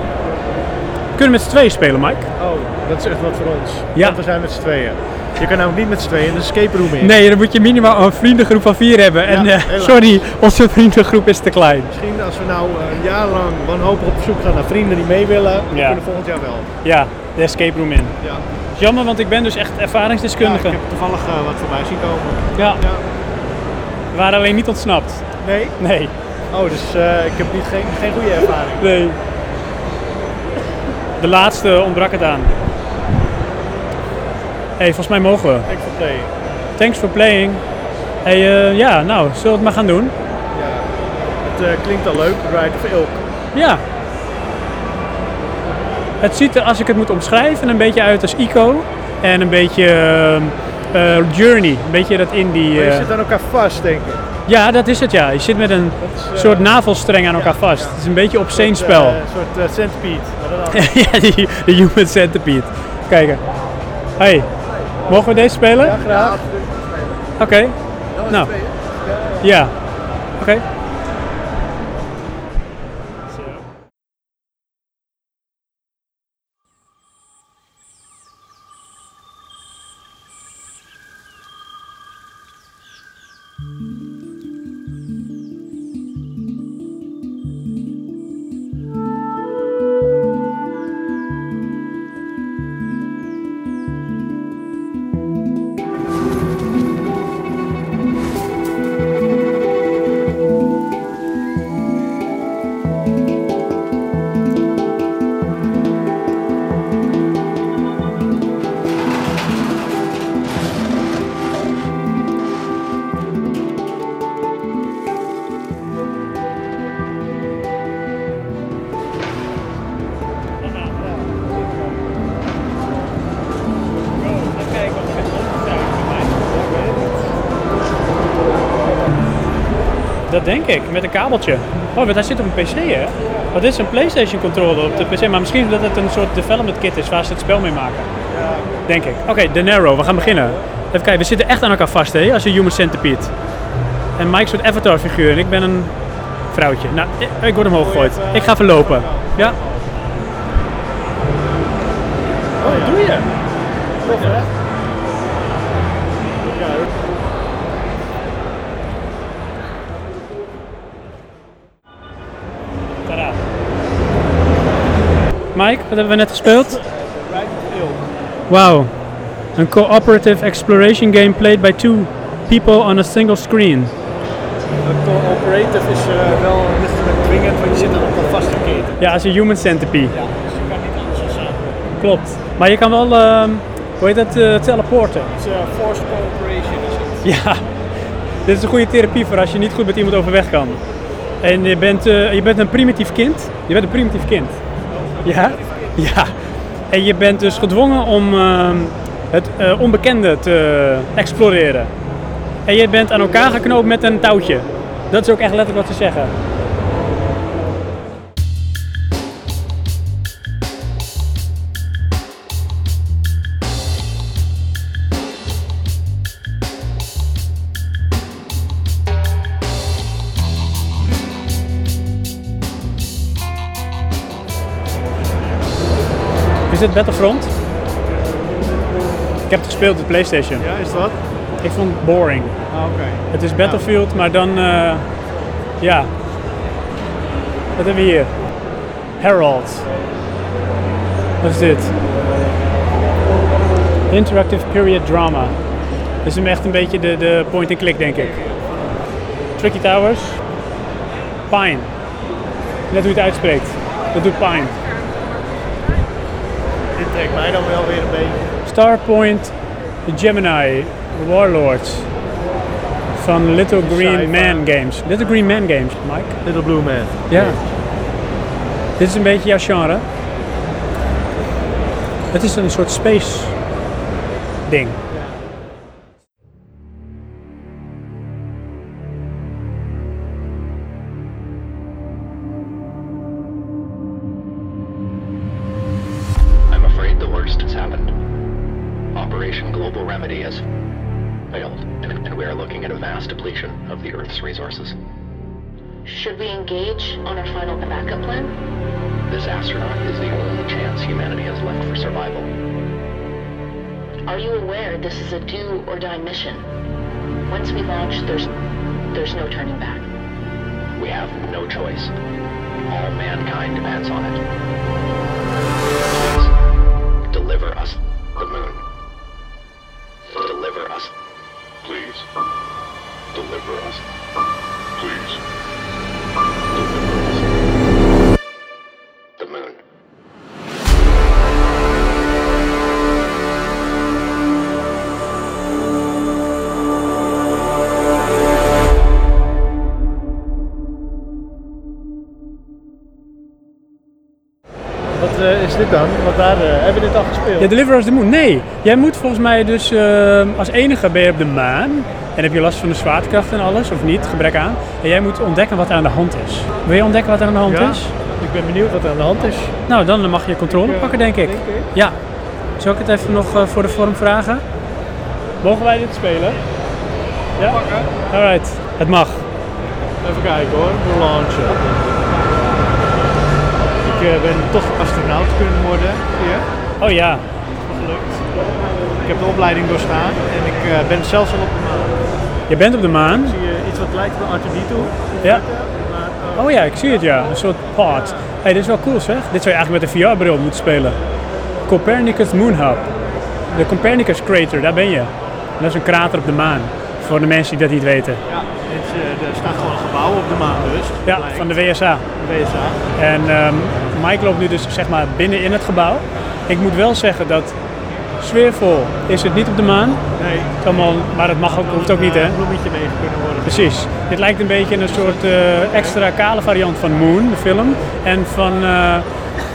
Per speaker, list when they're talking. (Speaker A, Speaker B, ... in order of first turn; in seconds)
Speaker A: 1.1-2.3, 7.0-11.9, 15.7-16.0, 16.8-18.1, 18.7-20.8, 22.6-22.8, 24.1-25.2, 25.8-26.1, 28.8-29.2, 31.2-32.6, 34.8-35.7, 36.8-37.6, 38.2-40.1, 43.5-43.8, 46.2-53.1, 54.5-59.2, 60.7-63.4, 64.2-64.5, 65.0-66.1, 67.4-67.8, 68.3-68.5, 69.4-69.7, 70.4-70.6, 120.6-121.0, 124.2-126.4, 130.3-138.1, 138.9-143.3, 144.2-145.9, 146.5-149.6, 152.6-153.3, 154.1-154.4, 163.1-163.4, 165.5-166.8, 168.5-168.9, 169.6-173.9, 179.0-180.1, 182.0-185.3, 187.2-187.6, 188.4-190.8, 191.4-194.6, 195.2-196.3, 196.9-201.9, 202.7-206.3, 226.7-227.5, 229.5-230.7, 231.6-232.6, 233.3-235.1, 235.8-236.1, 237.8-238.3, 239.2-239.8, 241.4-241.9, 244.1-245.6, 246.2-248.4, 249.6-250.4, 251.5-251.9, 252.9-254.8, 258.6-259.5, 260.1-262.1, 263.1-266.4, 267.3-267.6, 269.0-270.0, 272.3-273.5, 274.7-275.0, 347.6-358.1, 359.9-362.2, 362.8-364.6, 365.6-366.6, 367.6-369.4, 377.0-377.4, 382.7-383.6, 386.6-391.2, 391.9-393.1, 393.7-398.4, 401.2-402.2, 403.1-407.8, 408.4-410.2, 410.8-412.6, 413.6-419.2
Speaker B: 2.4-7.2, 9.2-10.2, 11.9-16.7, 20.4-23.0, 25.4-25.8, 26.5-29.1, 35.6-36.3, 40.5-40.9, 41.4-43.2, 52.7-54.2, 56.0-56.7, 57.3-61.0, 65.8-66.6, 121.2-121.7, 126.5-127.3, 138.3-138.8, 140.0-140.7, 147.7-149.9, 152.6-153.1, 153.9-154.5, 156.4-157.0, 166.8-168.1, 174.8-179.0, 180.1-181.8, 185.3-187.3, 194.9-196.0, 230.6-231.2, 232.7-233.8, 248.2-248.7, 256.9-258.4, 263.7-265.6, 266.4-267.7, 275.1-275.4, 345.1-347.7, 357.6-359.7, 360.7-361.9, 367.6-368.1, 370.2-372.2, 374.0-376.6, 377.9-378.5, 379.2-382.2, 383.3-388.5, 398.5-401.8, 402.3-403.0, 410.3-411.0, 411.6-414.1, 415.0-416.2
Speaker C: 286.7-288.1, 289.1-290.6, 291.5-294.9, 299.3-302.5, 310.9-312.1, 312.9-314.4, 316.0-316.5, 317.3-318.8, 320.3-321.1, 321.8-322.3, 323.3-324.0, 324.9-325.4, 326.7-327.6, 329.4-329.8
Speaker D: 296.0-298.5, 304.3-306.7, 307.5-308.5, 309.1-310.1